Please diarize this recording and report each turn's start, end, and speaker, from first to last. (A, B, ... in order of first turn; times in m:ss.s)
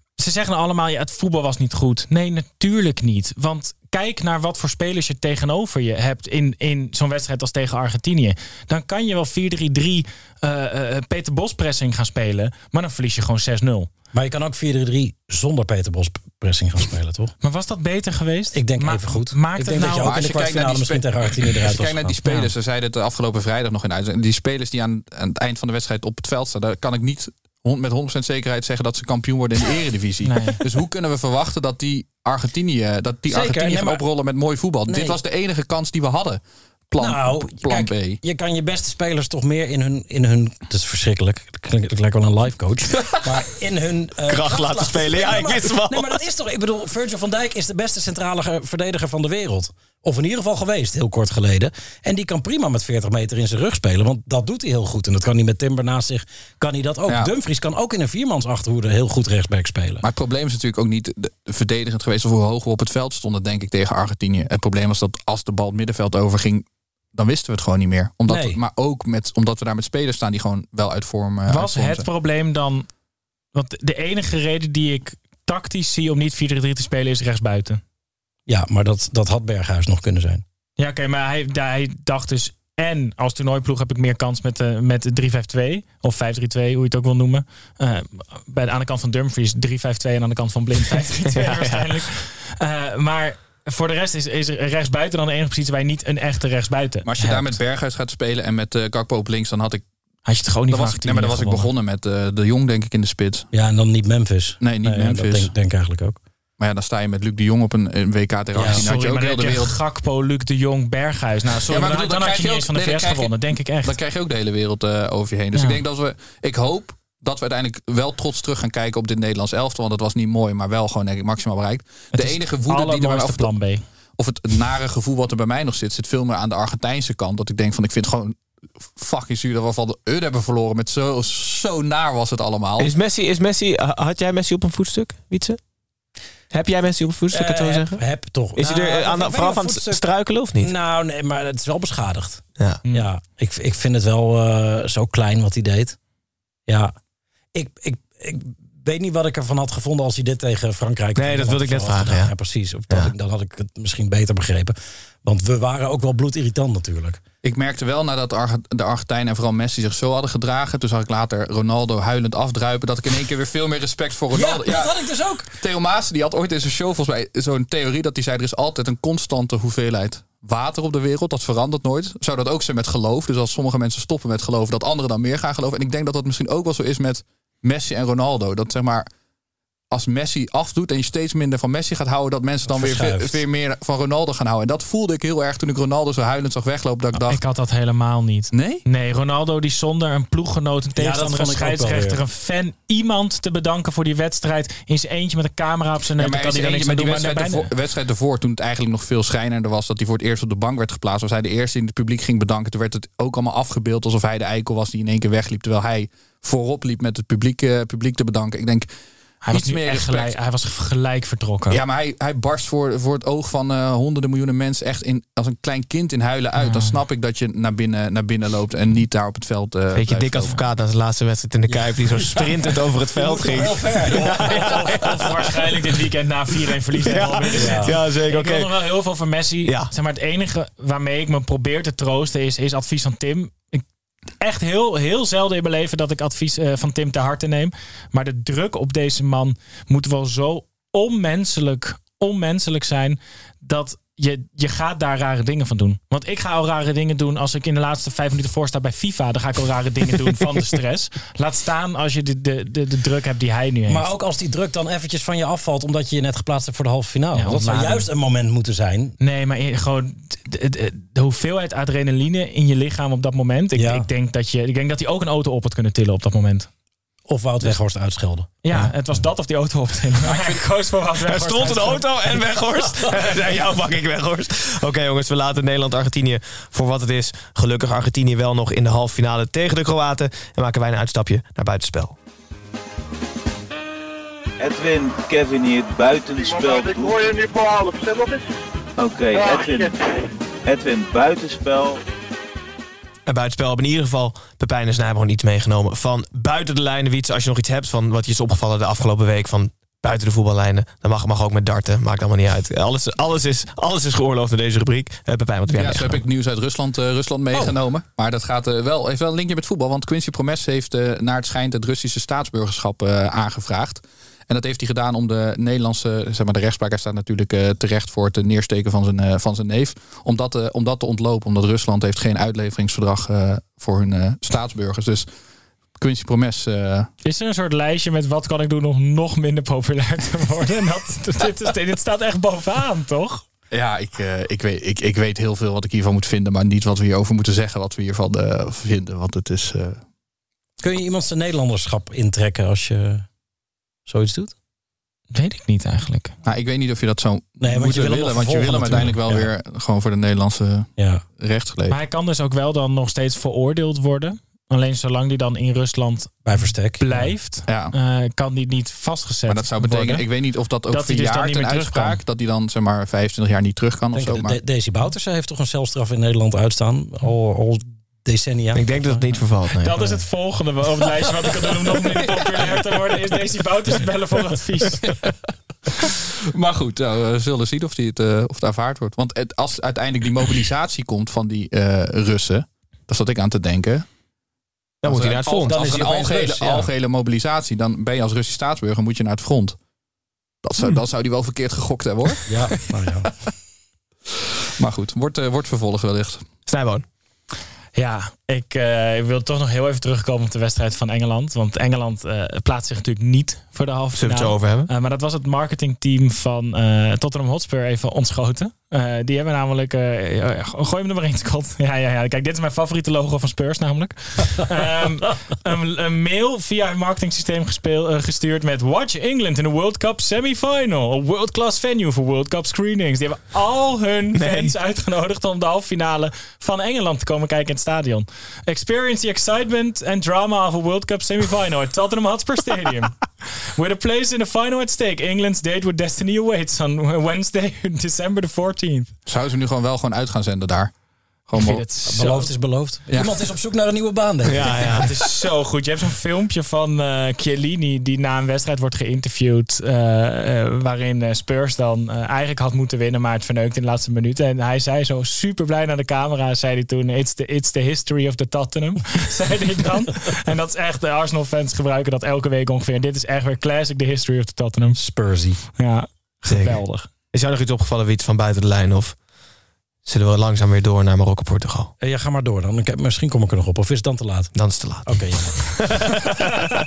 0:00.2-0:13.9 A
0:14.1-0:17.3 B
0:17.4-0:20.2 A
0:18.5-0:22.2 B
0:20.0-0:38.2 C
0:22.2-0:22.5 A
0:30.2-0:30.6 A
0:33.3-0:34.0 B
0:34.9-0:35.2 B
0:37.0-1:00.0 B
0:44.3-0:46.2 D
0:57.1-0:57.3 C
1:00.0-1:12.1 C
1:08.3-1:08.6 B
1:11.5-1:12.9 A
1:13.6-1:17.8 A
1:18.5-1:20.4 B
1:20.8-1:37.6 A
1:31.3-1:31.9 D
1:37.0-1:39.8 C
1:40.3-1:41.7 A
1:40.7-1:43.5 C
1:43.5-1:46.2 B
1:44.6-1:45.5 C
1:46.6-1:49.8 C
1:48.5-1:48.8 B
1:48.6-1:54.0 A
1:51.7-2:03.6 C
2:02.1-2:03.8 A
2:04.2-2:08.4 C
2:08.9-2:12.9 C
2:12.8-2:15.6 D
2:16.5-2:20.7 D
2:17.3-2:26.0 B
2:22.8-2:23.1 A
2:26.7-2:26.9 B
2:27.5-2:37.2 B
2:31.2-2:32.3 D
2:32.9-2:33.1 D
2:37.4-2:59.1 C
2:44.3-2:45.4 B
2:59.9-3:07.4 C
3:02.7-3:03.4 B
3:07.2-3:17.7 A
3:08.5-3:08.8 C
3:11.0-3:12.2 B
3:16.2-3:28.9 C
3:29.4-3:31.8 A
3:29.5-3:30.4 C
3:31.7-3:40.6 C
3:36.6-3:37.0 A
3:40.0-3:45.3 D
3:41.7-3:45.2 B
3:44.2-3:53.8 A
3:47.1-3:48.7 D
3:47.6-3:47.9 B
3:49.6-3:49.9 D
3:54.4-4:14.1 A
4:13.9-4:19.2 B
4:17.3-4:18.1 A
4:19.2-4:26.7 A
4:23.8-4:24.1 B
4:27.3-4:28.6 B
4:28.6-4:32.4 A
4:30.3-4:30.6 C
4:31.3-4:42.2 D
4:44.6-4:47.2 E
4:46.4-4:48.4 F
4:49.0-4:50.0 E
4:49.3-4:50.0 F
4:50.6-4:52.0 E
4:53.3-5:06.2 D
5:05.7-5:25.3 C
5:07.5-5:07.8 B
5:26.0-5:27.1 C
5:27.2-5:33.4 A
5:33.7-5:40.0 C
5:40.8-5:43.3 B
5:44.0-5:44.5 B
5:45.3-5:46.3 A
5:46.4-5:52.0 C
5:47.6-5:49.5 B
5:51.0-5:51.2 B
5:51.9-6:00.3 A
5:56.4-5:57.3 B
5:57.7-5:57.9 C
5:59.5-6:04.6 C
6:00.9-6:02.2 A
6:04.1-6:09.2 B
6:08.7-6:10.2 D
6:09.8-6:15.1 A
6:16.1-6:24.0 C
6:25.0-6:25.8 D
6:25.0-6:29.8 C
6:25.6-6:26.9 B
6:30.6-6:32.8 C
6:32.5-6:33.4 B
6:34.8-6:36.5 C
6:36.7-6:37.1 D
6:38.0-7:19.1 A
6:44.2-6:44.9 D
7:04.3-7:04.8 D
7:19.3-7:20.9 C
7:21.5-7:21.8 C
7:21.5-7:22.5 A
7:22.1-7:25.0 B
7:23.1-7:23.5 C
7:24.5-7:25.1 D
7:25.0-7:45.0 A
7:45.0-7:45.6 B
7:45.7-7:47.1 A
7:46.5-7:49.2 D
7:50.0-7:51.9 D
7:52.0-7:56.0 B
7:54.6-7:56.4 D